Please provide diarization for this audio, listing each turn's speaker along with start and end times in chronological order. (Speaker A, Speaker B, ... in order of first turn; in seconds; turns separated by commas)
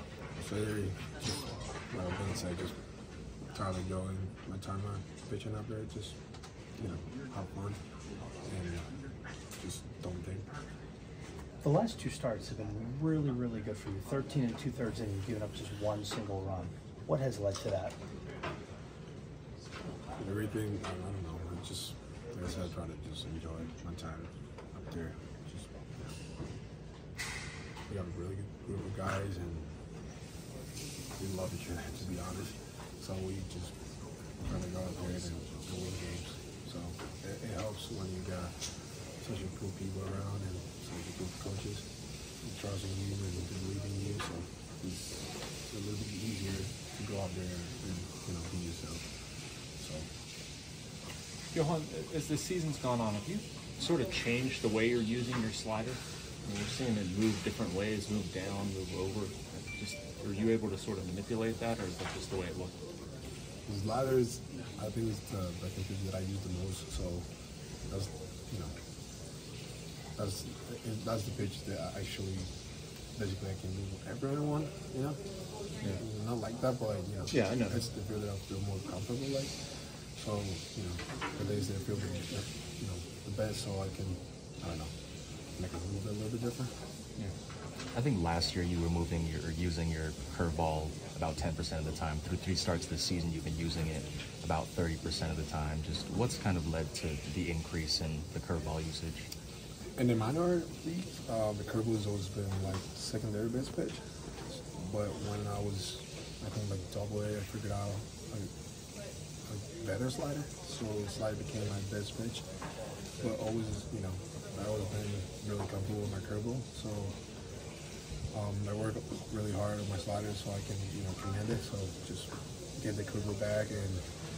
Speaker A: 0.3-2.8, Speaker A: 3.5-6.2, Speaker A: 6.8-7.8, Speaker A: 8.4-9.0, Speaker A: 9.6-10.5, Speaker B: 11.6-18.0, Speaker A: 20.2-26.2, Speaker A: 27.9-29.8, Speaker A: 31.2-33.7, Speaker A: 34.4-41.9, Speaker A: 42.4-50.1, Speaker C: 51.5-62.7, Speaker A: 63.6-67.3, Speaker A: 67.9-68.7, Speaker A: 70.2-72.5, Speaker A: 73.1-85.0, Speaker C: 77.4-77.8, Speaker A: 85.5-86.7, Speaker D: 87.9-99.3, Speaker A: 100.0-108.5, Speaker A: 109.4-112.5, Speaker A: 113.1-117.2, Speaker A: 118.3-124.2